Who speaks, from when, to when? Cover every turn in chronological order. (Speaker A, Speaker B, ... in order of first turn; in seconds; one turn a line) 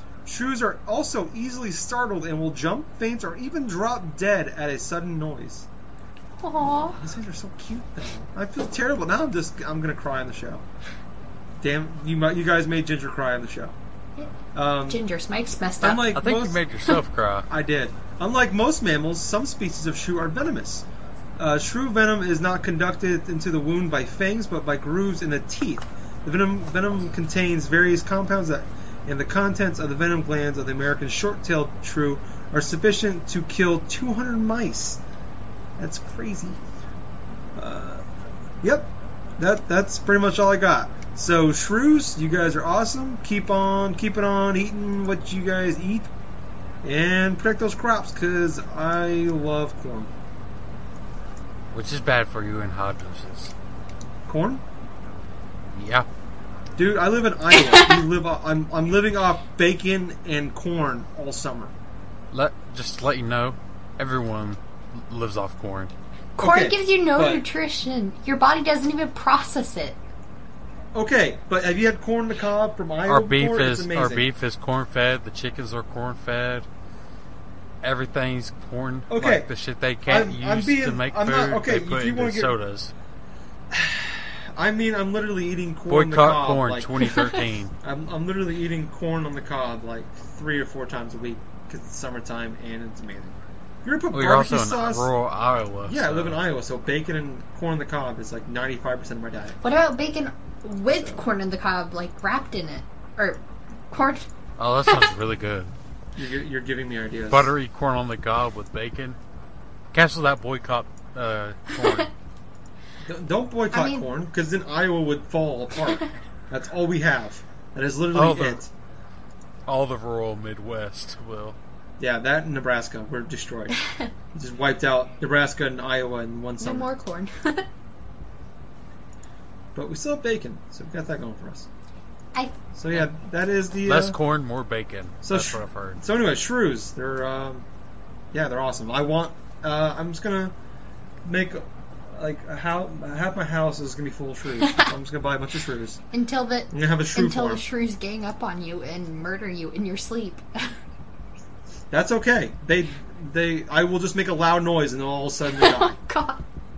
Speaker A: 0.2-5.7
Speaker B: 6.4-7.0
Speaker A: 7.0-10.7
Speaker A: 11.6-13.8
Speaker A: 14.5-15.0
Speaker B: 14.9-16.1
Speaker A: 15.8-16.6
Speaker C: 16.1-17.5
Speaker A: 17.5-20.9
Speaker A: 21.4-35.0
Speaker A: 35.8-36.6
Speaker A: 37.6-38.0
Speaker A: 38.6-46.1
Speaker A: 46.8-50.1
Speaker C: 51.7-53.5
Speaker A: 54.3-54.6
Speaker C: 55.7-56.1
Speaker A: 56.8-61.7
Speaker B: 57.5-58.0
Speaker C: 62.3-65.9
Speaker B: 66.4-70.0
Speaker A: 66.4-67.4
Speaker A: 70.9-74.3
Speaker C: 73.1-76.7
Speaker C: 77.8-82.9
Speaker A: 79.1-79.5
Speaker A: 80.1-82.5
Speaker A: 83.7-87.2
Speaker C: 85.9-87.7
Speaker A: 87.8-95.1
Speaker C: 94.1-96.4
Speaker A: 95.9-99.6
Speaker B: 99.6-104.3
Speaker A: 100.9-101.3
Speaker C: 104.6-105.7
Speaker A: 106.2-107.5
Speaker C: 107.3-109.2
Speaker C: 109.9-112.1
Speaker B: 111.8-112.1
Speaker A: 113.0-118.7
Speaker B: 113.7-114.1
Speaker C: 118.1-118.6
Speaker C: 119.7-121.6
Speaker A: 122.0-123.8
Speaker A: 124.3-126.9
Speaker B: 126.6-127.7
Speaker A: 129.8-131.7
Speaker A: 132.8-134.2
Speaker C: 133.8-136.0
Speaker A: 135.2-137.7
Speaker A: 138.3-140.5
Speaker A: 141.2-146.0
Speaker B: 144.6-144.9
Speaker B: 146.1-150.8
Speaker A: 146.7-147.6
Speaker A: 151.9-156.0
Speaker B: 155.5-156.4